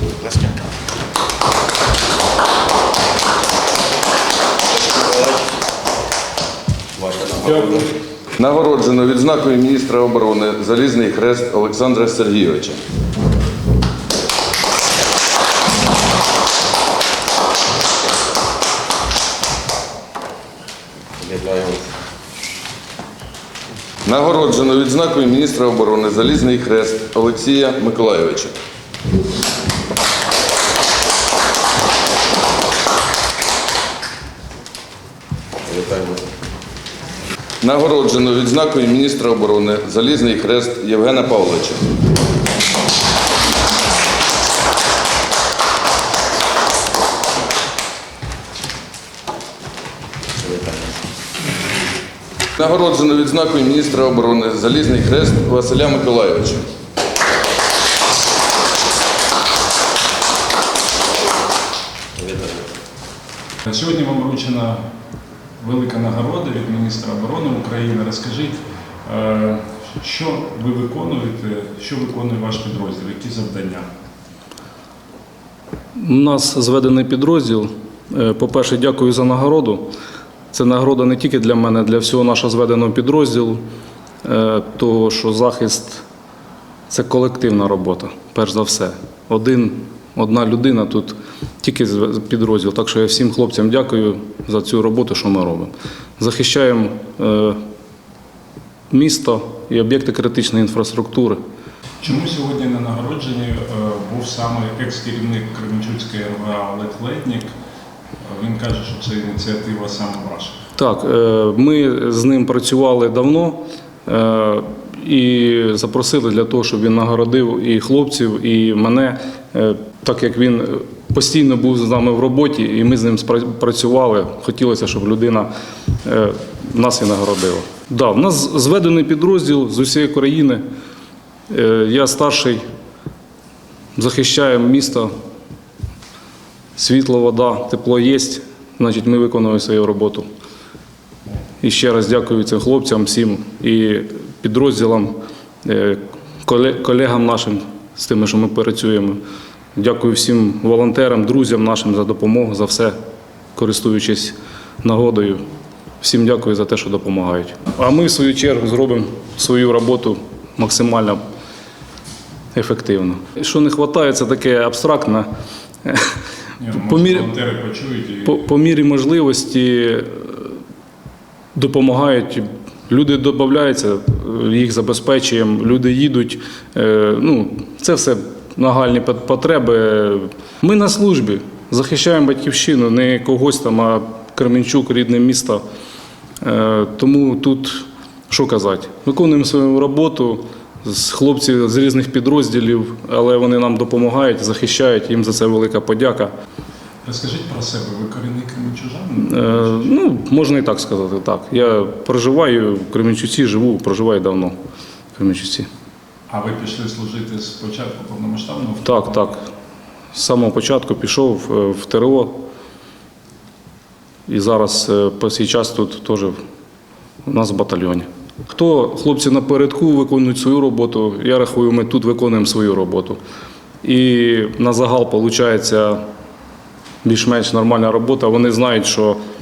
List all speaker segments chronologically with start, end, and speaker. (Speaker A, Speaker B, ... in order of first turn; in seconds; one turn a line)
Speaker A: 7.0-7.9
Speaker B: 8.4-12.8
Speaker A: 21.2-21.9
Speaker B: 24.1-28.5
Speaker A: 35.7-36.2
Speaker B: 37.6-41.9
Speaker A: 50.4-50.9
Speaker B: 52.6-56.7
Speaker A: 62.2-62.7
Speaker C: 63.7-64.8
Speaker C: 65.6-73.9
Speaker D: 76.0-79.9
Speaker D: 80.5-83.6
Speaker D: 84.2-86.0
Speaker D: 86.9-97.6
Speaker D: 98.9-101.4
Speaker C: 102.0-107.5
Speaker C: 108.2-110.6
Speaker D: 110.8-125.5
Speaker D: 126.0-130.6
Speaker D: 131.5-132.6
Speaker D: 134.0-135.1
Speaker D: 136.8-140.3
Speaker D: 141.6-149.2
Speaker D: 149.8-153.0
Speaker D: 153.6-155.4
Speaker D: 156.0-161.2
Speaker D: 162.5-165.3
Speaker C: 166.6-168.4
Speaker D: 166.7-167.3
Speaker D: 168.3-170.6
Speaker D: 171.6-185.6
Speaker D: 186.4-196.3
Speaker C: 197.1-199.9
Speaker D: 199.2-204.6
Speaker D: 205.1-205.7
Speaker C: 206.3-209.2
Speaker D: 208.8-209.4
Speaker D: 210.1-212.4
Speaker D: 214.3-216.4
Speaker D: 217.2-223.2
Speaker D: 223.8-226.0
Speaker D: 227.0-229.2